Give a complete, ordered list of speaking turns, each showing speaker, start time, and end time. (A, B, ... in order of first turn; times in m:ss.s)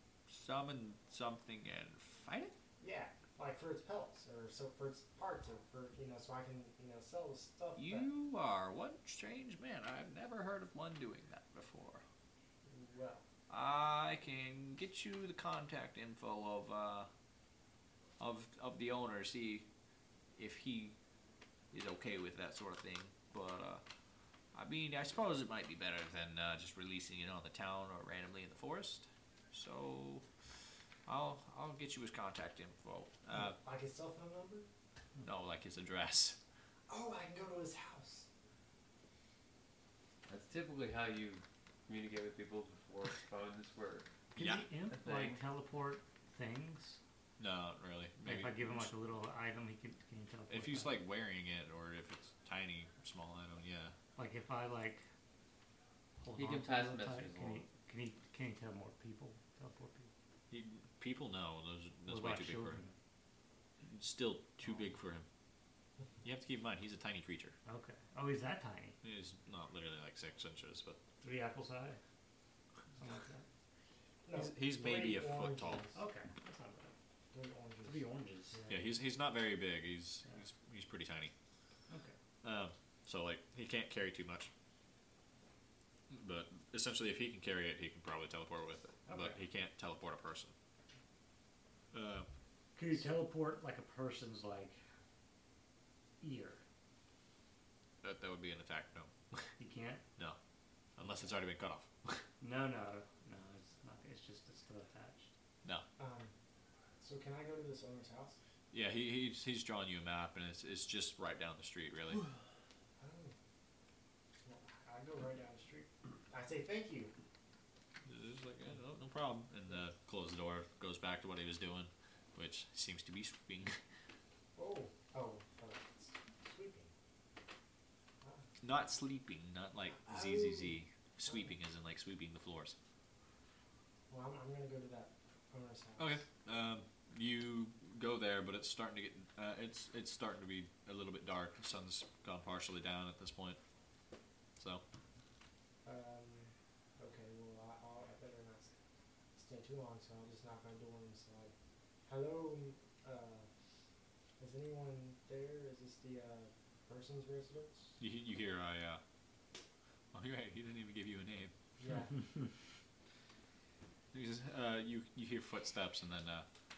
0:00.3-0:02.5 A
0:02.8-0:08.1 B
0:07.8-0:12.0 A
0:12.6-0:13.2 B
0:13.5-0:17.1 A
0:18.2-0:19.6 A
0:20.4-0:20.9 A
0:21.7-0:23.8 A
0:24.5-0:30.2 A
0:31.0-0:33.6 A
0:33.4-0:34.7 B
0:35.2-0:36.4 A
0:36.9-0:38.3 B
0:40.3-0:44.1 C
0:44.3-0:47.0 D
0:44.4-0:44.7 A
0:44.9-0:45.4 C
0:47.4-0:48.9 A
0:48.2-0:51.0 D
0:50.5-0:53.9 A
0:54.2-0:55.0 D
0:56.2-1:00.1 D
0:56.4-0:57.6 C
1:00.5-1:02.8 A
1:02.1-1:02.9 D
1:03.8-1:05.2 A
1:06.2-1:07.6 A
1:07.6-1:09.0 D
1:09.0-1:11.0 A
1:11.2-1:12.0 D
1:13.0-1:13.4 D
1:14.2-1:16.0 B
1:14.3-1:15.8 A
1:15.9-1:16.9 D
1:17.3-1:18.9 B
1:17.8-1:18.6 D
1:18.7-1:21.3 A
1:21.9-1:22.1 D
1:22.4-1:24.5 A
1:26.1-1:30.5 A
1:29.1-1:29.4 D
1:31.9-1:32.3 A
1:32.8-1:34.8 D
1:36.2-1:36.6 D
1:38.0-1:39.4 A
1:39.6-1:40.0 D
1:41.0-1:42.2 A
1:42.4-1:45.3 D
1:46.0-1:46.3 B
1:47.0-1:48.4 B
1:48.7-1:52.2 A
1:53.0-1:53.3 B
1:54.4-1:57.1 B
1:58.0-2:03.8 A
2:04.6-2:06.9 B
2:08.6-2:12.8 A
2:10.0-2:11.4 B
2:14.1-2:16.2 B
2:16.0-2:23.6 A
2:24.6-2:24.8 A
2:25.8-2:28.7 B
2:29.3-2:31.5 B
2:32.1-2:33.5 B
2:34.4-2:38.0 B
2:38.0-2:39.0 A
2:40.1-2:41.5 A
2:41.8-2:42.2 B
2:44.1-2:46.4 A